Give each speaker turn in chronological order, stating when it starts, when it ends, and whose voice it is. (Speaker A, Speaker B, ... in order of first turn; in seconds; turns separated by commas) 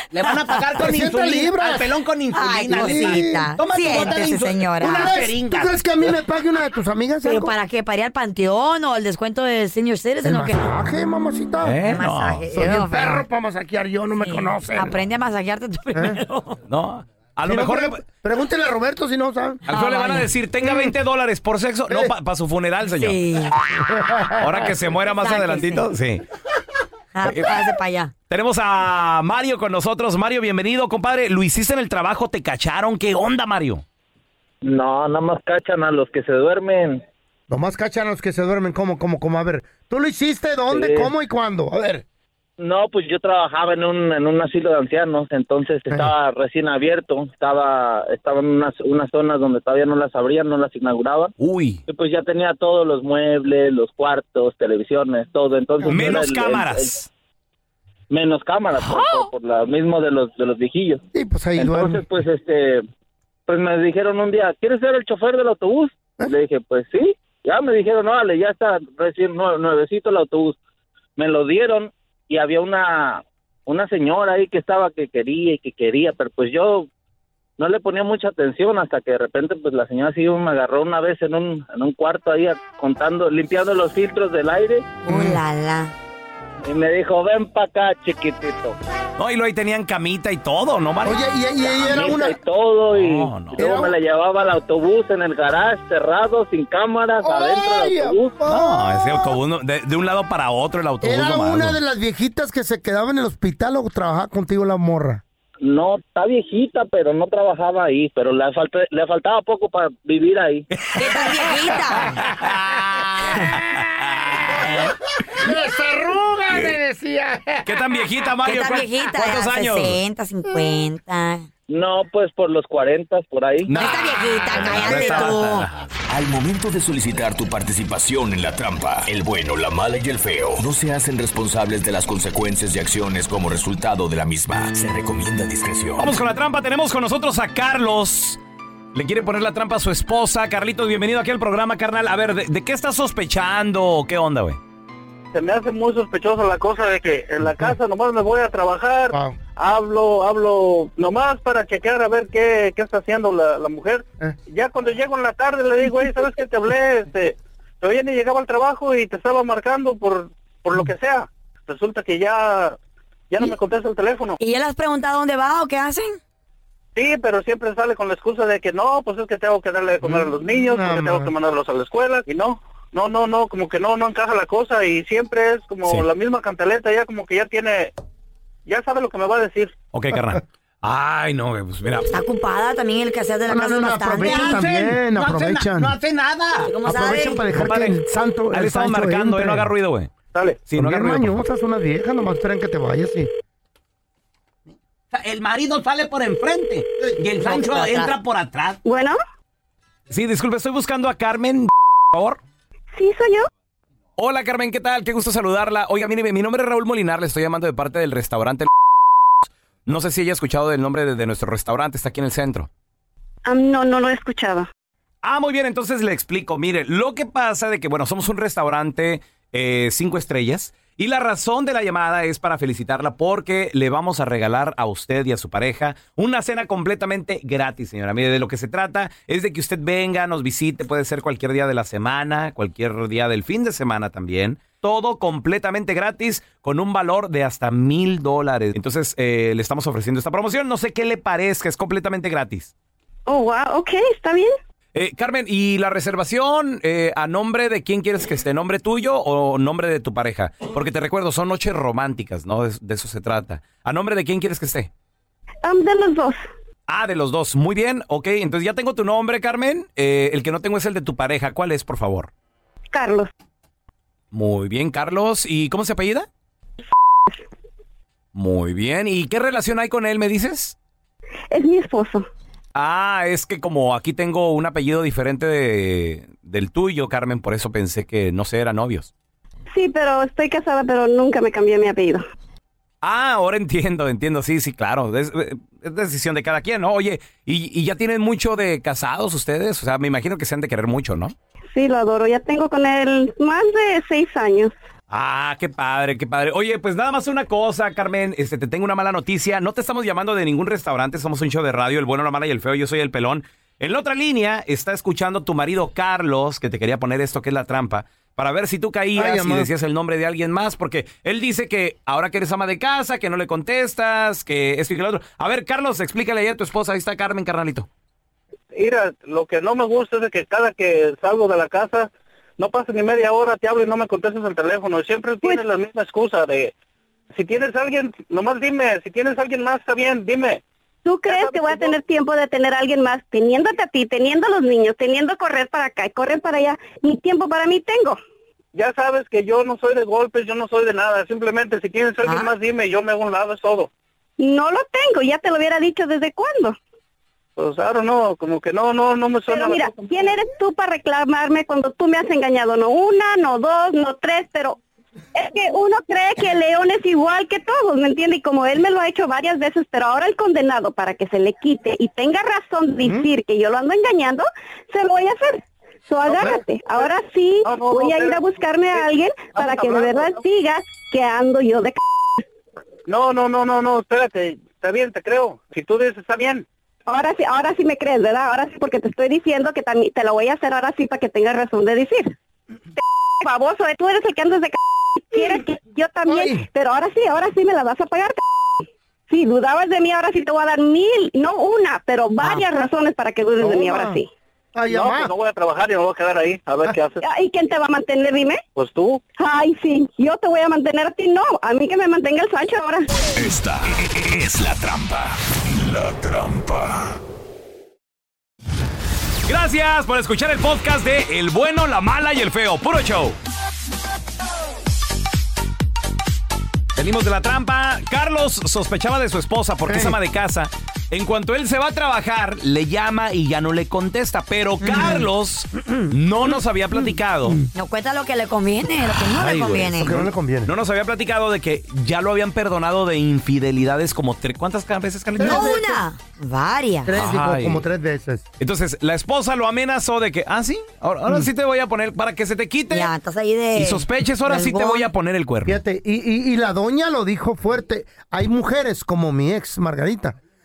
Speaker A: 0.1-5.8, Speaker B: 0.2-0.8, Speaker C: 0.8-1.9, Speaker B: 2.3-5.3, Speaker C: 2.7-3.5, Speaker C: 4.9-7.5, Speaker B: 7.2-10.6, Speaker C: 10.2-11.8, Speaker D: 11.6-12.4, Speaker B: 11.8-13.2, Speaker C: 12.5-15.0, Speaker B: 14.2-16.6, Speaker C: 15.9-16.2, Speaker D: 16.7-18.0, Speaker C: 17.4-19.6, Speaker B: 19.7-20.8, Speaker D: 19.7-23.2, Speaker B: 22.9-23.6, Speaker C: 23.7-24.6, Speaker D: 24.4-26.2, Speaker B: 25.1-25.9, Speaker B: 27.1-28.1, Speaker D: 27.2-27.5, Speaker D: 28.3-33.8, Speaker E: 34.6-37.0, Speaker C: 37.5-42.0, Speaker E: 40.7-41.1, Speaker E: 42.6-51.3, Speaker D: 51.4-51.8, Speaker E: 51.9-57.0, Speaker C: 55.8-56.2, Speaker D: 55.9-57.1, Speaker E: 58.1-61.0, Speaker C: 61.1-62.0, Speaker E: 61.6-62.8, Speaker E: 63.5-70.6, Speaker E: 71.2-76.9, Speaker E: 77.6-84.9, Speaker B: 85.0-85.9, Speaker C: 85.1-85.4, Speaker E: 86.6-88.8, Speaker D: 89.2-92.1, Speaker C: 91.0-92.4, Speaker E: 91.8-98.3, Speaker D: 92.9-93.6, Speaker C: 93.6-94.0, Speaker C: 97.2-99.3, Speaker D: 98.5-101.8, Speaker C: 101.0-105.2, Speaker E: 105.6-110.7, Speaker D: 110.7-114.9, Speaker B: 111.0-112.2, Speaker C: 114.6-117.8, Speaker D: 117.6-120.0, Speaker B: 118.4-121.5, Speaker E: 121.7-123.8, Speaker D: 123.7-125.9, Speaker B: 123.7-125.7, Speaker F: 126.1-136.2, Speaker D: 136.0-138.4, Speaker D: 138.9-144.6, Speaker G: 145.3-162.8, Speaker C: 149.1-149.4, Speaker G: 163.3-164.4, Speaker B: 164.4-166.2, Speaker G: 166.9-177.9, Speaker C: 170.0-171.3, Speaker G: 178.7-179.7, Speaker D: 179.9-182.1, Speaker B: 182.1-184.6, Speaker C: 183.4-186.0, Speaker A: 184.2-186.7, Speaker B: 186.6-187.4, Speaker C: 186.8-189.7, Speaker D: 187.6-190.1, Speaker G: 190.3-190.6, Speaker D: 190.7-191.4, Speaker C: 190.7-193.3, Speaker A: 195.1-198.8, Speaker B: 197.4-198.1, Speaker H: 198.8-199.2, Speaker D: 200.1-202.4, Speaker H: 202.9-203.5, Speaker D: 204.2-208.7, Speaker D: 209.8-212.7, Speaker H: 213.4-214.7, Speaker D: 215.2-242.7, Speaker H: 243.3-244.5, Speaker D: 244.9-254.9, Speaker H: 255.6-256.4, Speaker D: 256.9-262.3, Speaker H: 262.9-263.3, Speaker D: 264.3-266.3, Speaker D: 268.3-270.8, Speaker H: 271.5-272.3, Speaker D: 272.7-279.1, Speaker H: 279.7-282.2, Speaker D: 283.0-291.3, Speaker H: 291.7-294.7, Speaker D: 295.1-317.9, Speaker C: 309.1-309.7, Speaker G: 318.7-326.7, Speaker G: 327.3-330.6, Speaker H: 331.0-338.2, Speaker G: 331.3-331.9, Speaker G: 338.7-343.9, Speaker B: 342.2-342.5, Speaker H: 344.4-346.8, Speaker G: 347.6-350.3, Speaker H: 349.5-354.8, Speaker H: 355.3-372.0, Speaker G: 366.2-367.1, Speaker G: 367.6-370.4, Speaker G: 373.1-376.6, Speaker H: 377.1-382.3, Speaker H: 383.4-394.3, Speaker C: 386.3-386.6, Speaker C: 393.6-394.2, Speaker C: 394.7-395.3, Speaker G: 394.9-397.2, Speaker H: 397.2-398.6, Speaker G: 398.8-399.2, Speaker H: 399.4-403.1, Speaker F: 403.4-407.0, Speaker D: 409.4-413.4, Speaker D: 416.9-427.6, Speaker C: 419.9-420.2, Speaker B: 424.8-425.2, Speaker B: 427.7-430.2, Speaker D: 429.1-435.8, Speaker C: 429.9-430.7, Speaker C: 435.4-436.0, Speaker B: 435.4-437.1, Speaker C: 437.0-438.4, Speaker D: 437.1-437.8, Speaker D: 438.6-443.1, Speaker B: 442.9-445.1, Speaker D: 443.8-445.8, Speaker C: 445.6-450.4